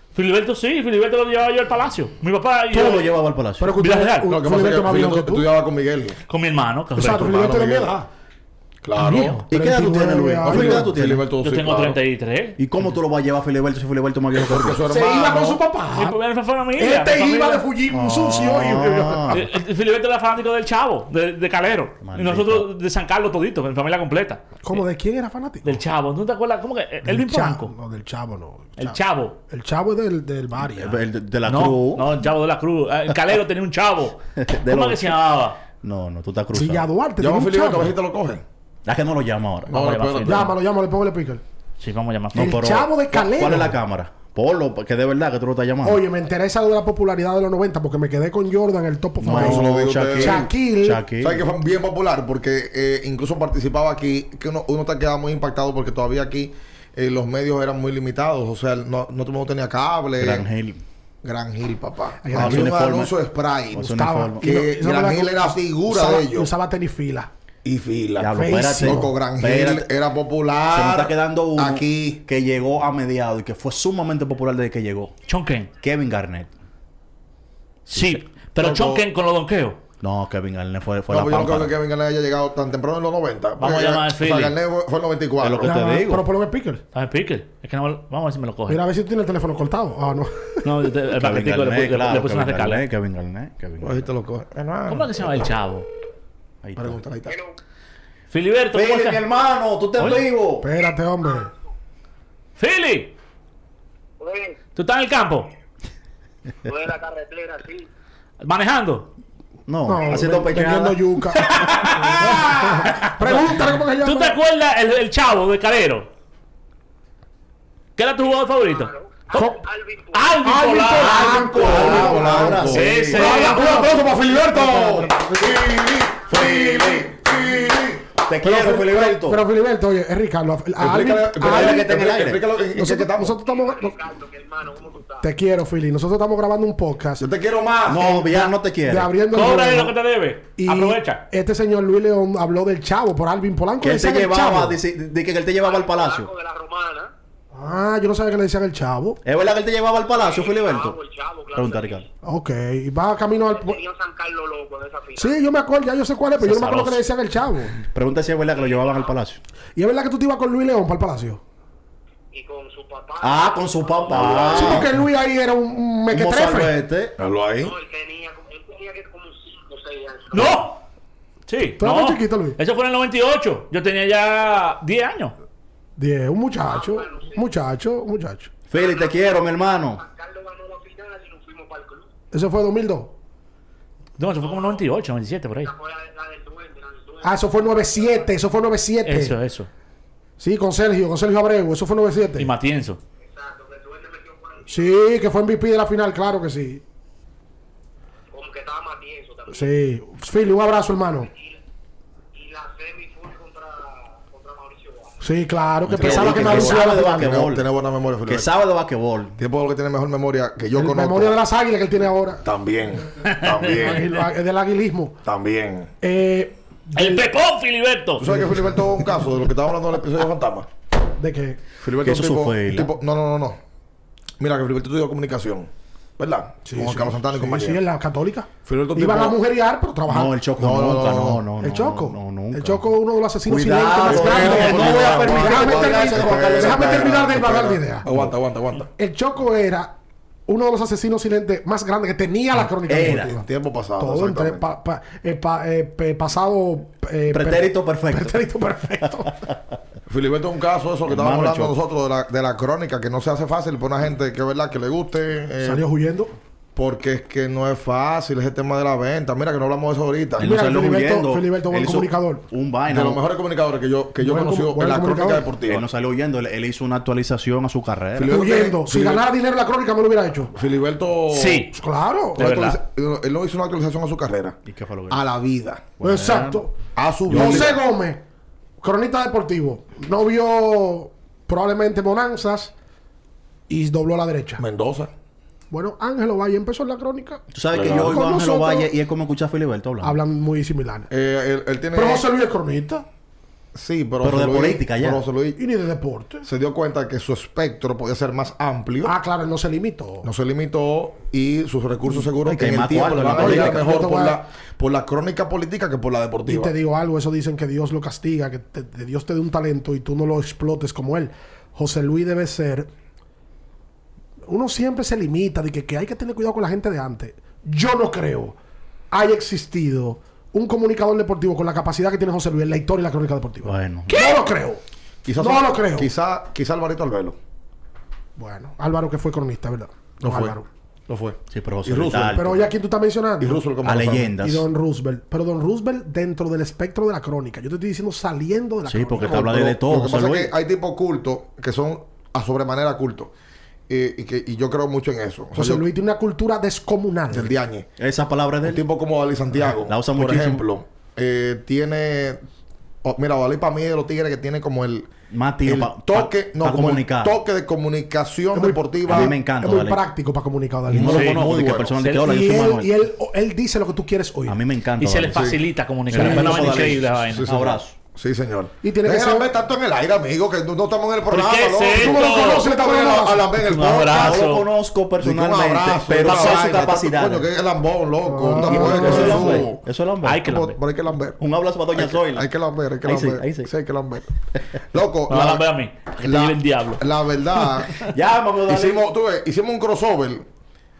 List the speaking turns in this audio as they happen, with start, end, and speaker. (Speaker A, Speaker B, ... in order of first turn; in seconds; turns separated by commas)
Speaker A: 0.1-3.1, Speaker B: 2.7-3.8, Speaker C: 2.7-3.0, Speaker C: 3.6-5.5, Speaker A: 3.8-4.3, Speaker D: 4.3-6.2, Speaker A: 6.3-7.4, Speaker C: 6.9-8.1, Speaker D: 7.0-8.0, Speaker D: 8.8-9.4, Speaker C: 9.0-10.9, Speaker B: 9.5-11.2, Speaker D: 10.4-12.0, Speaker A: 11.4-12.6, Speaker B: 12.6-14.8, Speaker D: 14.3-15.6, Speaker C: 14.8-16.2, Speaker A: 15.9-17.6, Speaker C: 16.8-19.4, Speaker B: 17.9-19.5, Speaker A: 19.3-24.8, Speaker B: 22.0-22.7, Speaker C: 24.6-25.8, Speaker A: 25.6-27.7, Speaker C: 27.0-31.0, Speaker A: 28.8-29.4, Speaker B: 30.6-32.1, Speaker A: 31.5-35.6, Speaker B: 34.4-35.2, Speaker B: 35.8-36.9, Speaker C: 36.5-37.9, Speaker D: 37.2-38.4, Speaker B: 38.9-39.8, Speaker D: 39.7-40.5, Speaker A: 39.7-40.5, Speaker C: 40.2-41.4, Speaker A: 41.8-42.5, Speaker B: 42.3-46.0, Speaker C: 42.3-43.8, Speaker C: 45.8-51.0, Speaker B: 49.2-51.4, Speaker D: 49.3-50.5, Speaker D: 51.2-60.5, Speaker B: 60.2-60.8, Speaker D: 61.2-66.5, Speaker C: 62.2-62.7, Speaker B: 62.3-63.1, Speaker B: 63.7-64.5, Speaker C: 63.8-67.3, Speaker D: 67.6-72.2, Speaker B: 68.2-69.9, Speaker C: 68.3-69.1, Speaker B: 70.7-75.1, Speaker A: 75.3-75.7, Speaker B: 75.8-76.5, Speaker A: 77.9-79.8, Speaker D: 78.6-79.0, Speaker B: 80.0-81.7, Speaker D: 81.1-85.7, Speaker A: 83.6-84.5, Speaker B: 85.4-86.2, Speaker C: 85.6-86.8, Speaker A: 86.9-88.8, Speaker C: 88.7-90.7, Speaker A: 90.6-92.8, Speaker B: 91.1-94.1, Speaker D: 93.8-95.5, Speaker A: 94.9-95.9, Speaker B: 96.6-97.0, Speaker D: 96.8-97.3, Speaker E: 97.3-97.5, Speaker A: 98.3-99.2, Speaker B: 98.7-100.6, Speaker A: 100.0-100.2, Speaker C: 100.6-101.5, Speaker A: 102.6-103.1, Speaker E: 104.2-104.6, Speaker A: 104.8-105.5, Speaker E: 106.6-107.9, Speaker A: 108.4-109.1, Speaker B: 109.7-111.0, Speaker C: 109.9-111.5, Speaker A: 111.3-116.1, Speaker C: 112.0-114.4, Speaker A: 118.0-118.9, Speaker E: 118.5-120.4, Speaker C: 119.3-119.6, Speaker A: 120.1-123.9, Speaker C: 120.4-125.6, Speaker B: 120.9-123.4, Speaker D: 121.5-128.1, Speaker B: 126.3-127.1, Speaker B: 128.2-129.4, Speaker C: 128.4-131.9, Speaker D: 130.8-133.4, Speaker B: 131.4-132.4, Speaker C: 132.7-133.9, Speaker E: 133.4-135.3, Speaker C: 135.2-137.3, Speaker D: 137.2-138.2, Speaker B: 137.8-139.1, Speaker C: 138.0-139.9, Speaker A: 139.3-141.2, Speaker C: 140.6-144.8, Speaker B: 143.8-146.3, Speaker E: 145.6-147.1, Speaker C: 147.5-149.2, Speaker B: 149.2-151.0, Speaker E: 150.1-152.1, Speaker B: 151.5-152.1, Speaker C: 152.2-153.8, Speaker E: 153.5-155.4, Speaker C: 155.2-157.7, Speaker B: 156.4-157.0, Speaker B: 157.8-159.4, Speaker E: 158.6-159.1, Speaker C: 159.8-161.4, Speaker E: 162.3-164.8, Speaker B: 163.2-164.9, Speaker D: 164.1-164.8, Speaker C: 164.5-166.8, Speaker B: 166.1-167.2, Speaker D: 167.2-167.7, Speaker E: 167.6-170.7, Speaker A: 170.3-170.8, Speaker A: 171.5-175.3, Speaker C: 171.8-172.6, Speaker C: 176.0-178.5, Speaker E: 176.7-177.4, Speaker B: 178.7-180.0, Speaker E: 178.7-182.1, Speaker C: 182.3-183.1, Speaker A: 184.2-185.7, Speaker E: 184.4-184.8, Speaker E: 185.6-188.4, Speaker C: 187.2-189.3, Speaker A: 189.0-189.7, Speaker C: 190.4-192.5, Speaker A: 192.4-193.0, Speaker E: 193.2-195.0, Speaker C: 194.7-196.8, Speaker E: 198.3-199.7, Speaker C: 199.5-201.3, Speaker E: 201.2-201.6, Speaker E: 202.3-205.2, Speaker C: 205.2-207.3, Speaker B: 205.8-207.7, Speaker D: 205.9-208.5, Speaker B: 208.2-209.4, Speaker D: 209.4-211.4, Speaker C: 210.8-212.4, Speaker D: 212.4-214.1, Speaker A: 213.2-213.8, Speaker C: 213.7-215.2, Speaker D: 215.2-215.9, Speaker C: 216.0-217.3, Speaker A: 216.9-218.2, Speaker D: 218.2-220.7, Speaker C: 218.2-219.0, Speaker C: 221.2-221.6, Speaker D: 221.8-223.6, Speaker B: 222.0-222.9, Speaker D: 224.4-227.8, Speaker C: 226.6-230.3, Speaker D: 228.7-229.4, Speaker B: 230.1-232.9, Speaker D: 230.6-231.4, Speaker C: 231.6-238.1, Speaker B: 233.4-237.2, Speaker D: 234.0-238.9, Speaker B: 238.1-238.3, Speaker C: 238.9-239.9, Speaker C: 240.5-243.4, Speaker B: 242.5-243.3, Speaker D: 243.1-244.6, Speaker C: 244.0-249.4, Speaker B: 247.3-248.4, Speaker B: 249.2-249.6, Speaker D: 250.1-255.8, Speaker B: 251.0-251.8, Speaker C: 255.6-256.3, Speaker D: 256.8-260.5, Speaker B: 260.4-263.2, Speaker C: 260.4-262.4, Speaker D: 262.9-265.8, Speaker C: 264.2-265.5, Speaker B: 265.6-268.4, Speaker D: 268.1-269.2, Speaker C: 268.3-270.6, Speaker D: 270.5-271.6, Speaker A: 271.3-271.7, Speaker C: 271.7-272.4, Speaker D: 272.4-274.6, Speaker A: 272.4-272.8, Speaker B: 274.6-275.2, Speaker D: 275.1-275.9, Speaker B: 276.0-276.6, Speaker C: 276.0-276.7, Speaker D: 276.9-277.8, Speaker C: 277.3-278.2, Speaker C: 278.8-282.7, Speaker C: 283.7-284.6, Speaker D: 284.6-285.1, Speaker C: 285.7-288.9, Speaker B: 287.5-290.2, Speaker D: 287.7-288.2, Speaker C: 290.0-291.1, Speaker D: 291.1-292.2, Speaker C: 291.9-293.1, Speaker D: 293.7-295.6, Speaker B: 294.2-295.2, Speaker C: 295.6-296.4, Speaker D: 296.4-299.1, Speaker C: 299.0-300.3, Speaker D: 300.2-306.7, Speaker B: 302.4-304.0, Speaker C: 303.2-304.4, Speaker C: 306.5-312.9, Speaker C: 314.5-318.6, Speaker C: 319.1-324.8, Speaker B: 323.6-324.4, Speaker A: 324.1-324.4, Speaker D: 325.2-327.4, Speaker C: 325.4-326.1, Speaker C: 328.4-330.7, Speaker D: 330.2-330.6, Speaker D: 331.1-332.5, Speaker B: 331.5-332.7, Speaker C: 332.3-333.6, Speaker D: 333.4-334.3, Speaker B: 333.8-334.6, Speaker C: 334.4-339.8, Speaker B: 338.9-340.5, Speaker D: 339.2-343.3, Speaker D: 343.9-345.8, Speaker C: 345.5-347.5, Speaker D: 347.3-347.9, Speaker B: 348.0-348.8, Speaker D: 348.6-352.4, Speaker B: 349.6-350.6, Speaker D: 353.0-355.1, Speaker B: 355.3-357.4, Speaker D: 355.6-359.3, Speaker C: 358.5-361.3, Speaker B: 359.1-360.0, Speaker B: 360.9-362.9, Speaker D: 360.9-362.0, Speaker A: 361.1-361.4, Speaker A: 362.0-362.4, Speaker C: 362.2-364.6, Speaker B: 364.4-365.6, Speaker A: 365.0-367.5, Speaker D: 365.3-365.6, Speaker B: 366.1-367.9, Speaker C: 366.1-366.6, Speaker D: 366.1-374.5, Speaker C: 368.8-369.5, Speaker A: 371.3-372.7, Speaker C: 371.9-373.6, Speaker A: 373.6-374.6, Speaker B: 374.1-377.5, Speaker D: 375.2-379.8, Speaker A: 376.2-376.7, Speaker C: 378.2-379.6, Speaker B: 378.6-380.5, Speaker A: 380.2-380.8, Speaker D: 380.4-381.4, Speaker B: 381.4-382.5, Speaker D: 381.9-384.3, Speaker B: 383.0-383.7, Speaker D: 384.9-385.6, Speaker A: 385.3-387.0, Speaker D: 386.2-388.1, Speaker B: 387.9-389.0, Speaker D: 388.7-390.4